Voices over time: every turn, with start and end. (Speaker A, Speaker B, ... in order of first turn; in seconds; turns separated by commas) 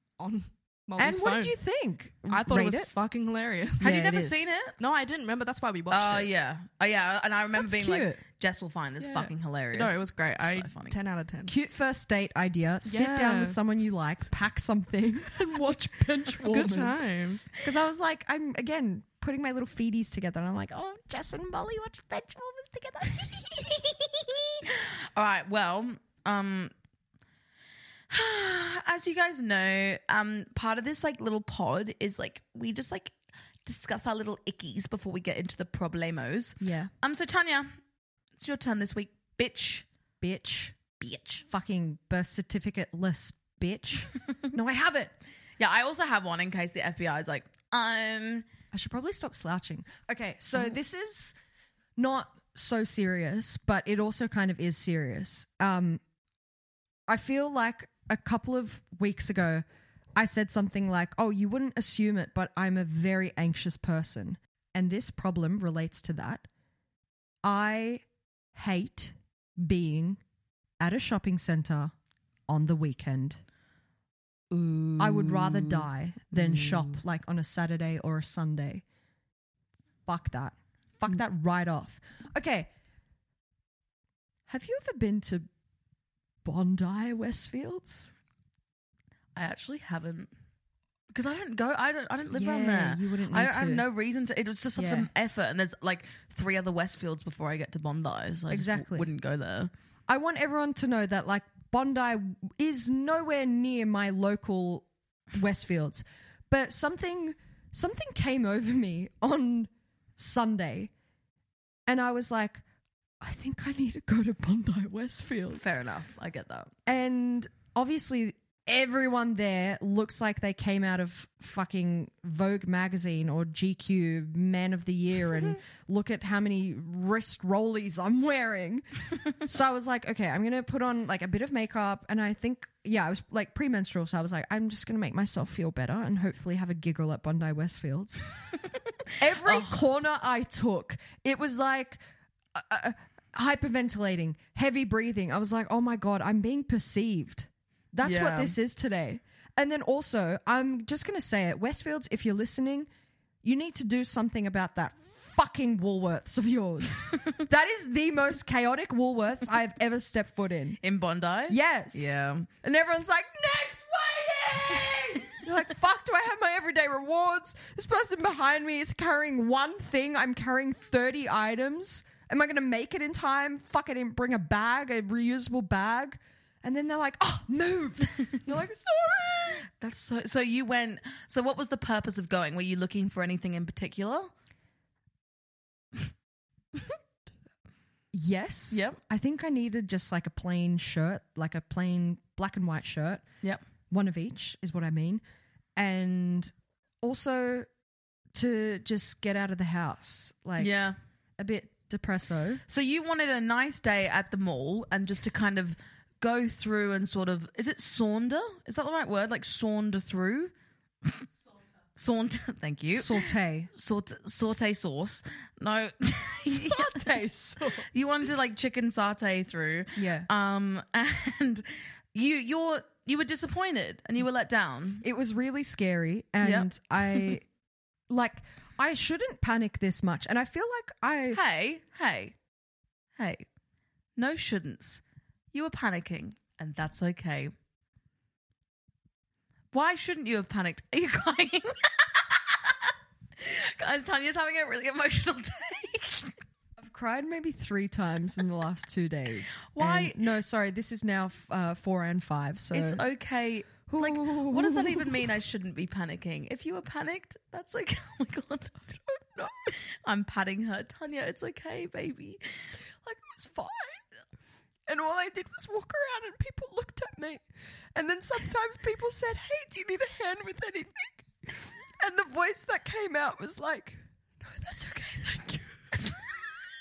Speaker A: 0.2-1.6, Speaker B: 1.0-2.9, Speaker A: 2.3-3.9, Speaker B: 3.8-4.5, Speaker C: 3.8-4.8, Speaker A: 4.8-6.3, Speaker C: 5.9-11.0, Speaker B: 7.5-8.2, Speaker A: 9.0-11.5, Speaker B: 11.5-24.6, Speaker A: 12.8-13.6, Speaker A: 16.4-17.5, Speaker C: 25.1-26.7, Speaker C: 28.1-37.7, Speaker B: 36.6-36.9, Speaker C: 38.4-39.9, Speaker B: 40.2-40.8, Speaker C: 41.0-41.4, Speaker B: 41.4-45.1, Speaker C: 45.6-48.5, Speaker B: 48.7-51.4, Speaker B: 52.0-56.0, Speaker B: 57.1-59.6, Speaker B: 60.2-66.5, Speaker B: 67.4-70.2, Speaker B: 70.8-71.9, Speaker B: 72.5-73.4, Speaker C: 74.5-77.0, Speaker B: 75.0-78.8, Speaker B: 80.1-82.7, Speaker B: 84.5-85.5, Speaker B: 86.4-88.1, Speaker C: 89.4-90.3, Speaker C: 91.1-99.7, Speaker B: 92.3-93.9, Speaker B: 94.8-95.1, Speaker B: 98.5-99.1, Speaker B: 100.1-110.9, Speaker B: 111.9-112.6, Speaker B: 113.2-115.8, Speaker C: 115.5-116.7, Speaker B: 116.9-128.9, Speaker B: 129.4-138.2, Speaker B: 139.2-142.0, Speaker C: 139.4-139.8, Speaker B: 142.5-152.9, Speaker C: 148.0-148.6, Speaker B: 153.4-160.8, Speaker C: 160.8-162.5, Speaker B: 161.5-162.1, Speaker B: 162.6-179.7, Speaker C: 179.7-184.3, Speaker B: 188.1-193.2, Speaker C: 188.7-189.0, Speaker B: 193.9-195.2, Speaker B: 195.8-197.7, Speaker B: 198.3-200.8, Speaker C: 200.6-201.0, Speaker B: 201.4-202.6, Speaker C: 202.7-210.5, Speaker C: 212.0-217.0, Speaker B: 212.9-213.7, Speaker B: 216.4-217.8, Speaker C: 217.9-225.0, Speaker B: 219.9-220.3, Speaker B: 225.0-227.4, Speaker C: 226.4-227.3, Speaker B: 228.1-231.4, Speaker C: 231.3-232.3, Speaker C: 233.2-233.4, Speaker C: 234.2-235.0, Speaker C: 235.5-237.5, Speaker C: 239.7-241.7, Speaker C: 242.4-242.7, Speaker C: 243.4-246.3, Speaker B: 246.8-253.0, Speaker C: 249.7-250.2, Speaker C: 252.7-259.0, Speaker B: 253.9-255.3, Speaker B: 259.1-259.8, Speaker C: 260.0-262.4, Speaker B: 263.0-264.0, Speaker B: 264.9-267.4, Speaker B: 267.9-271.3, Speaker B: 272.0-276.1